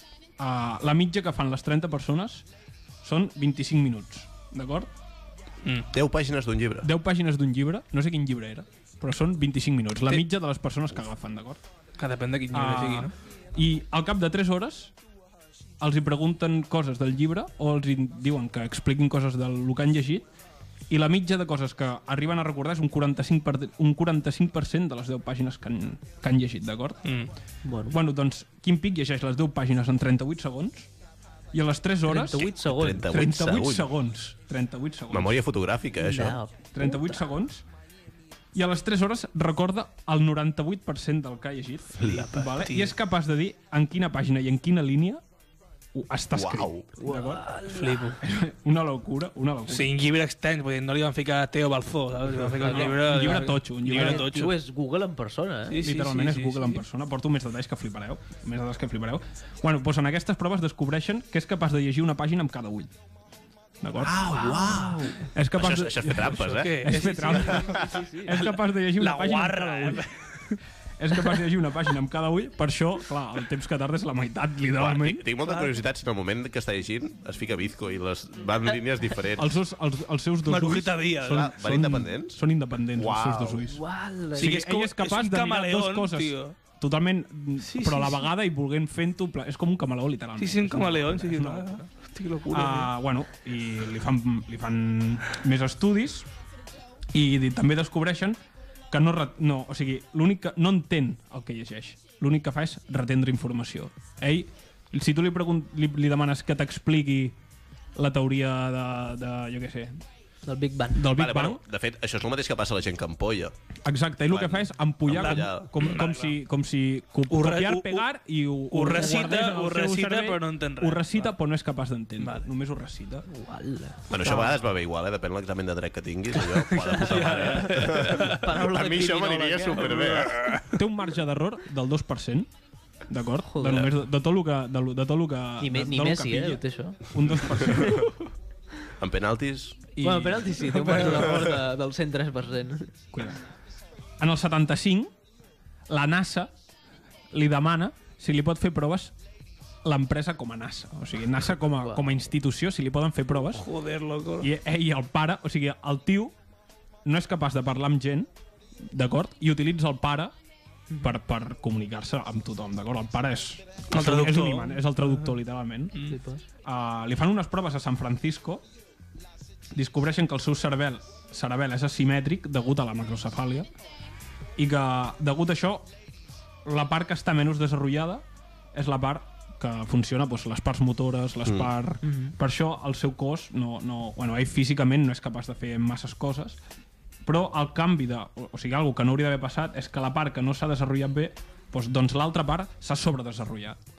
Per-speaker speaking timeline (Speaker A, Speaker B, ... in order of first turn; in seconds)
Speaker A: 0.4-2.4, 3.0-4.9, 6.8-11.6, 12.5-14.9, 15.8-20.3, 20.9-27.1, 27.9-30.9, 31.5-32.5, 33.1-35.4, 36.7-37.6, 38.5-45.2, 45.9-47.5, 48.2-49.9, 52.6-54.3, 55.8-62.9, 63.8-64.5, 65.3-70.1, 71.0-75.3, 79.4-91.9, 92.5-96.3, 97.1-98.4, 98.9-107.4, 107.9-110.0, 110.9-111.6, 113.8-123.3, 124.2-124.6, 130.7-132.5, 133.1-138.1, 139.9-141.2, 143.1-143.4, 144.2-145.1, 145.9-146.5, 147.3-149.1, 149.8-153.7, 154.4-156.3, 157.1-158.3, 158.8-160.3, 161.0-166.0, 166.6-168.6, 169.7-173.7, 174.6-175.9, 176.6-186.6, 187.2-193.8
Speaker B: 5.9-6.9, 32.5-33.9, 35.1-36.4, 46.3-46.9, 64.0-68.0, 74.8-79.6, 81.2-82.4, 83.0-83.6, 111.1-113.5, 114.3-115.9, 124.1-130.6, 139.0-139.8
Speaker C: 12.0-13.1, 42.0-42.9, 47.7-48.2, 49.7-54.5, 55.7-56.8, 66.3-70.5, 80.5-81.5, 84.4-86.5, 87.6-88.3, 90.4-92.9, 115.1-116.4, 117.3-118.1, 118.7-121.3, 122.2-122.5, 126.4-128.4, 129.8-130.7, 140.7-141.2, 153.5-154.5, 163.9-164.9
Speaker D: 27.6-28.0, 32.1-33.1, 36.0-37.2, 47.0-48.1, 52.6-55.8, 64.3-65.2, 67.3-68.3, 83.7-84.5, 110.5-111.1, 123.3-124.0, 126.9-130.2, 133.5-133.9, 135.6-137.0, 137.6-138.0, 140.0-142.9, 166.1-166.4, 182.1-182.3